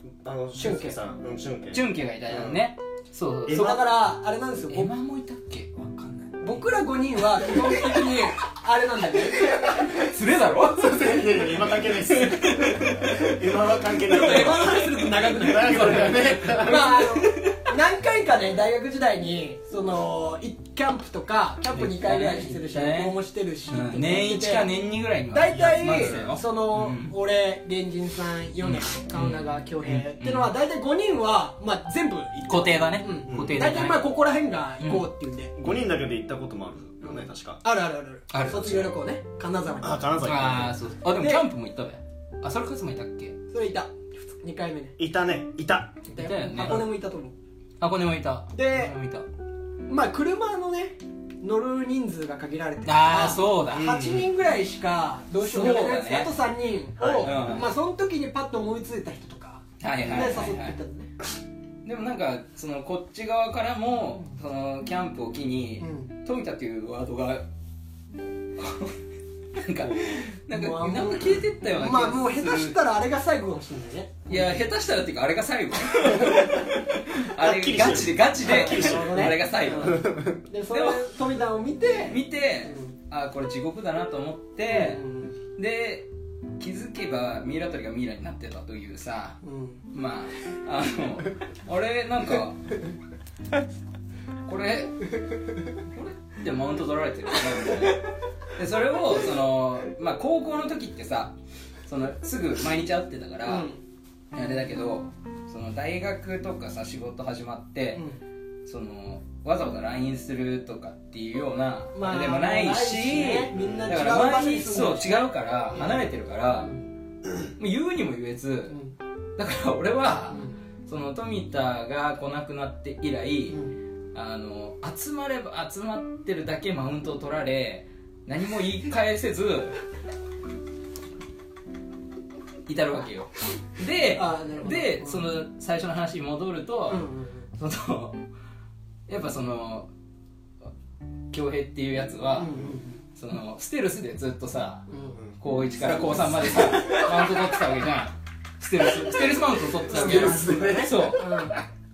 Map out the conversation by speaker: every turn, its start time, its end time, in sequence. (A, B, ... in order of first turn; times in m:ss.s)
0:00.2-0:02.6 A
0:00.6-0:01.0 B
0:01.7-0:03.8 C
0:03.5-0:03.8 A
0:03.5-0:04.9 B
0:04.7-0:06.6 C
0:06.4-0:09.7 B
0:07.5-0:07.9 C
0:09.9-0:13.3 C
0:10.7-0:17.1 A
0:14.1-0:24.7 B
0:14.1-0:14.6 C
0:15.6-0:17.6 C
0:21.7-0:23.2 C
0:23.7-0:27.1 C
0:25.3-0:35.5 B
0:25.7-0:26.3 A
0:28.6-0:30.5 C
0:32.5-0:34.1 C
0:33.3-0:33.7 A
0:34.8-0:35.1 C
0:35.6-0:37.6 A
0:37.0-0:40.1 B
0:38.3-0:38.9 C
0:39.8-0:40.8 A
0:40.2-0:43.4 C
0:41.2-0:41.5 B
0:43.5-0:45.0 B
0:45.0-0:46.1 A
0:46.1-0:47.3 B
0:46.2-0:46.9 C
0:47.8-0:49.3 C
0:48.5-0:48.9 B
0:49.9-1:01.1 B
0:52.8-0:53.9 C
0:53.7-0:54.3 A
0:55.4-0:56.3 C
0:57.0-0:57.7 A
0:57.2-0:57.7 C
0:59.8-1:00.8 C
1:01.8-1:07.5 C
1:05.8-1:06.1 B
1:08.6-1:09.0 C
1:09.6-1:12.8 C
1:10.5-1:14.6 B
1:14.3-1:20.2 C
1:17.4-1:20.4 A
1:18.4-1:22.9 B
1:20.7-1:21.0 C
1:22.1-1:29.4 C
1:24.7-1:25.4 B
1:29.4-1:29.8 B
1:29.9-1:32.6 C
1:34.4-1:35.2 C
1:35.9-1:41.4 C
1:41.9-1:43.7 C
1:43.4-1:43.8 B
1:44.3-1:48.0 C
1:47.9-1:48.2 B
1:48.6-1:56.7 C
1:51.9-1:56.0 B
1:53.5-1:54.2 A
1:56.6-1:56.8 B
1:57.6-1:58.8 C
1:58.7-1:59.0 B
1:59.4-2:03.6 C
2:03.5-2:03.7 B
2:04.1-2:09.8 C
2:12.7-2:18.2 C
2:14.1-2:15.3 B
2:16.9-2:17.5 B
2:19.1-2:19.9 C
2:21.3-2:24.9 C
2:22.4-2:23.0 B
2:24.9-2:25.2 B
2:25.1-2:26.2 A
2:25.4-2:31.5 C
2:26.0-2:27.3 B
2:29.9-2:31.2 A
2:29.9-2:31.6 B